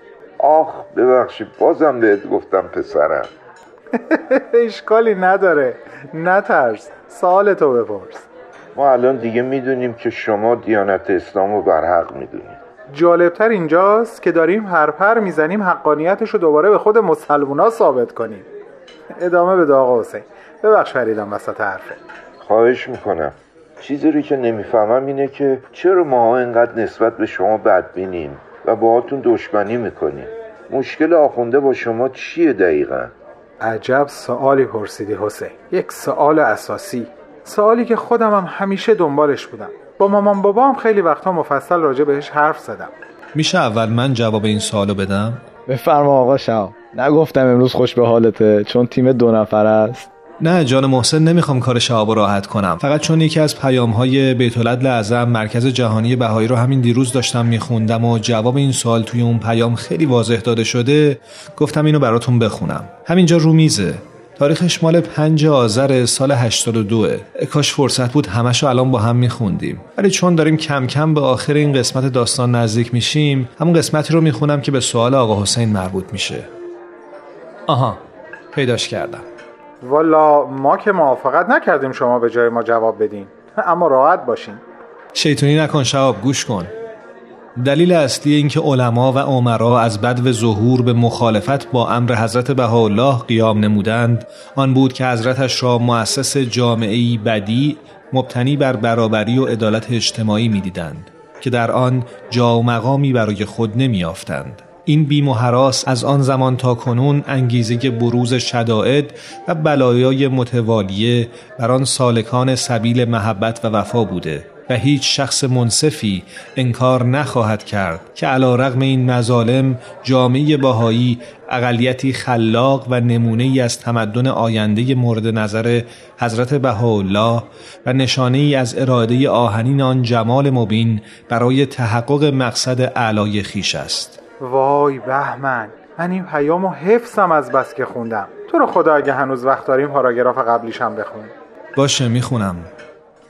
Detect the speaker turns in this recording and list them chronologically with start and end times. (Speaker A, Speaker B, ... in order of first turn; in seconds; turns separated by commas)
Speaker A: 0.4-3.3, Speaker B: 4.0-8.3, Speaker A: 8.8-12.6, Speaker B: 12.9-18.5, Speaker B: 19.2-22.0, Speaker A: 22.4-33.1, Speaker B: 33.6-42.9, Speaker C: 43.3-45.4, Speaker D: 45.7-50.1, Speaker C: 50.4-76.5, Speaker C: 77.7-78.0, Speaker C: 78.5-79.3, Speaker B: 79.8-84.6, Speaker C: 85.1-86.7, Speaker C: 87.6-134.2, Speaker B: 134.4-141.3, Speaker C: 141.8-142.7